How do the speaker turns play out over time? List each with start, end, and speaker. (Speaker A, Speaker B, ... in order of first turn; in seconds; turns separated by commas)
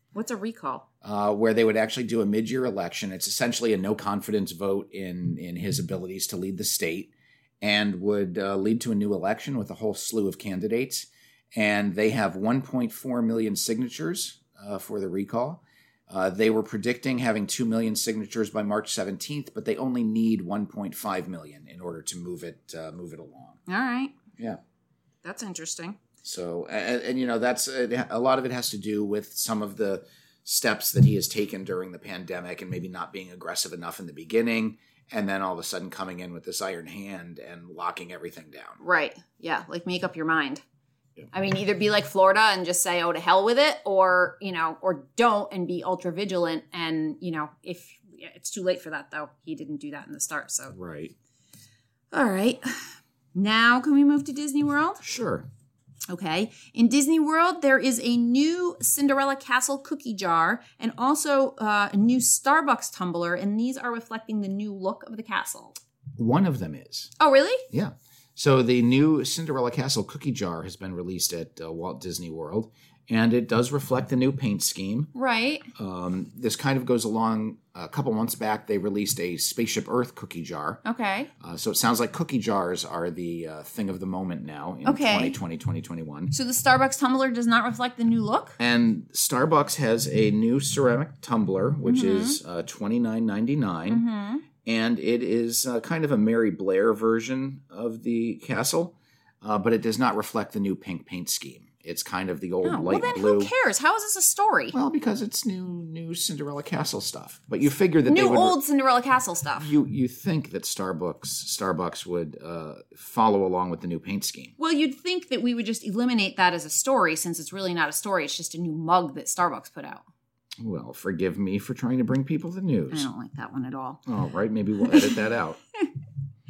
Speaker A: 0.1-0.9, Speaker B: 1.0-23.6, Speaker A: 23.7-24.2, Speaker A: 25.2-26.0, Speaker B: 26.2-38.8, Speaker A: 38.8-40.6, Speaker A: 41.3-50.8, Speaker B: 50.7-51.1, Speaker A: 52.1-55.0, Speaker B: 55.0-55.5, Speaker A: 56.1-65.8, Speaker B: 66.2-67.1, Speaker A: 67.2-67.7, Speaker B: 67.7-75.1, Speaker A: 75.1-75.7, Speaker B: 75.8-80.8, Speaker A: 80.8-81.3, Speaker B: 81.4-86.3, Speaker A: 84.8-85.4, Speaker A: 86.3-88.6, Speaker B: 88.6-94.0, Speaker A: 91.8-92.4, Speaker A: 93.9-94.5, Speaker B: 94.6-103.5, Speaker A: 102.7-104.8, Speaker B: 104.7-108.6, Speaker A: 108.1-109.7, Speaker B: 109.6-114.5, Speaker A: 114.6-120.0, Speaker B: 120.6-123.1, Speaker A: 122.9-124.0, Speaker B: 124.1-125.6, Speaker A: 124.8-125.2